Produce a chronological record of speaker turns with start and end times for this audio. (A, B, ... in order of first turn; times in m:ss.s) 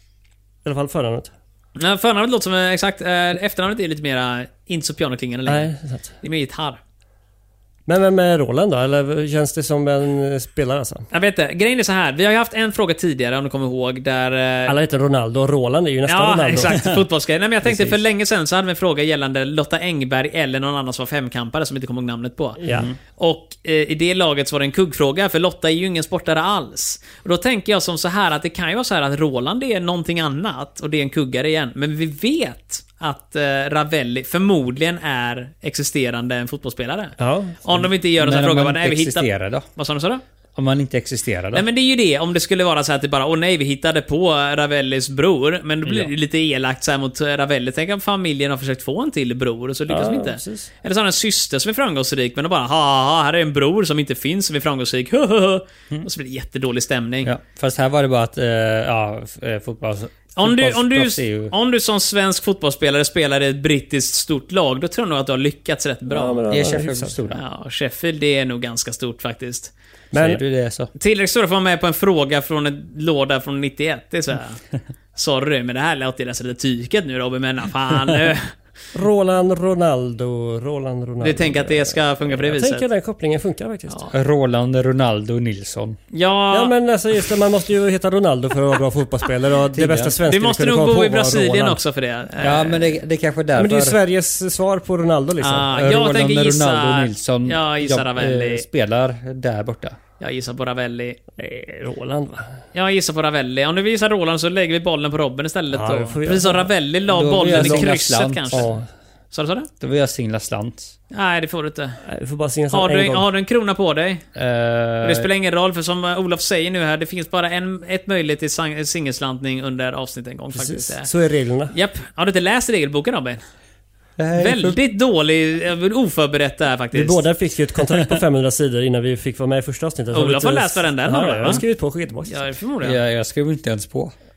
0:00.6-0:01.3 A
0:01.8-0:05.7 B
0:05.5-0:06.1 A
0:06.2-0:06.8 B
0:07.9-0:11.1 A
0:11.1-0:14.8 B
0:14.7-0:16.9 A
0:16.1-0:22.6 B
0:17.6-0:18.0 A
0:22.6-0:22.9 A
0:23.2-0:40.2 B
0:37.2-0:37.7 A
0:38.2-0:39.7 C
0:40.6-0:41.6 C
0:41.5-0:57.3 B
0:45.8-0:46.1 C
0:49.9-0:50.7 A
0:57.2-1:01.5 C
1:00.4-1:06.4 B
1:06.1-1:07.2 A
1:06.5-1:07.4 C
1:07.3-1:09.7 B
1:10.1-1:10.9 C
1:10.1-1:10.4 A
1:11.0-1:14.6 B
1:15.2-1:18.6 B
1:18.9-1:24.0 A
1:21.2-1:22.9 B
1:24.1-1:26.0 C
1:26.1-1:26.7 B
1:26.5-1:31.8 A
1:29.7-1:30.2 C
1:30.3-1:32.9 B
1:32.4-1:34.0 C
1:33.6-1:35.8 A
1:35.4-1:38.6 B
1:35.7-1:40.0 C
1:40.2-1:41.2 B
1:41.4-1:42.5 A
1:42.7-1:48.7 B
1:45.7-1:46.7 A
1:47.1-1:48.7 C
1:47.4-1:47.9 A
1:48.5-1:48.8 A
1:49.3-1:49.7 B
1:49.8-1:50.9 C
1:51.1-1:52.0 B
1:52.0-1:53.3 A
1:52.7-1:54.2 B
1:54.4-1:55.3 C
1:55.0-2:01.1 B
2:00.5-2:01.7 A
2:01.7-2:03.4 B
2:04.2-2:04.8 C
2:04.4-2:07.2 B
2:06.9-2:12.5 A
2:10.1-2:11.6 B
2:12.3-2:13.0 B
2:12.8-2:14.1 C